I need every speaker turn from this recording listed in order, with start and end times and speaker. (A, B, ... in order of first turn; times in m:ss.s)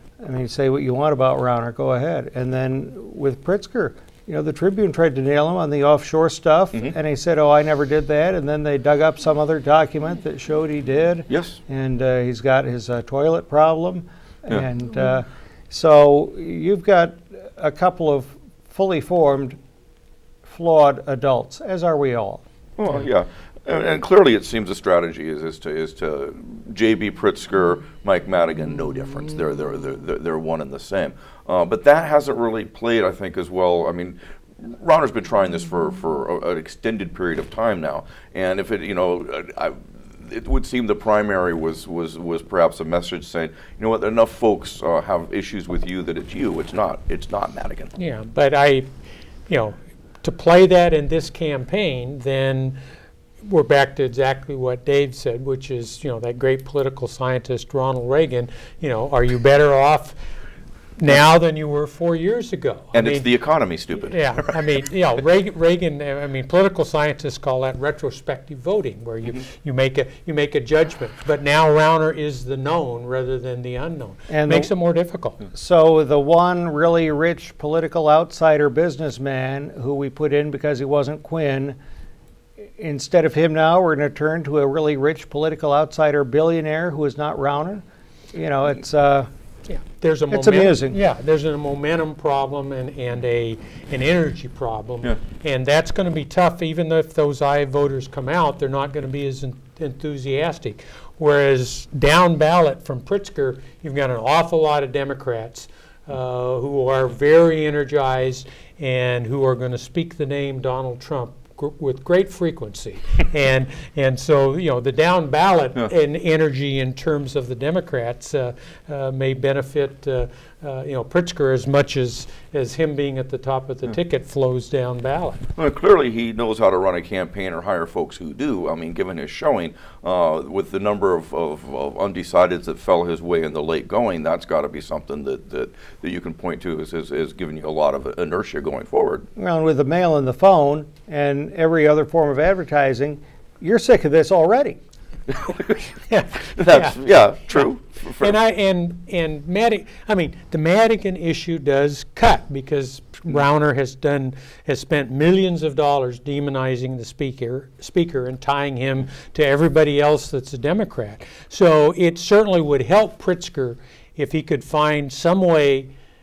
0:00.2-0:19.6 A
0:11.3-0:11.6 B
0:20.4-0:22.4 A
0:22.8-0:47.9 B
0:48.0-0:48.9 C
0:49.5-0:52.8 C
0:53.4-1:00.2 C
1:01.0-1:03.2 C
1:02.9-1:04.6 B
1:04.1-1:15.4 C
1:14.3-1:14.7 A
1:15.5-1:21.8 A
1:22.8-1:29.3 A
1:29.7-2:05.4 C
1:30.3-1:31.0 A
2:05.6-2:19.3 B
2:19.4-2:24.8 A
2:25.3-2:25.8 B
2:26.1-2:27.0 C
2:26.6-2:28.3 B
2:28.2-2:45.9 C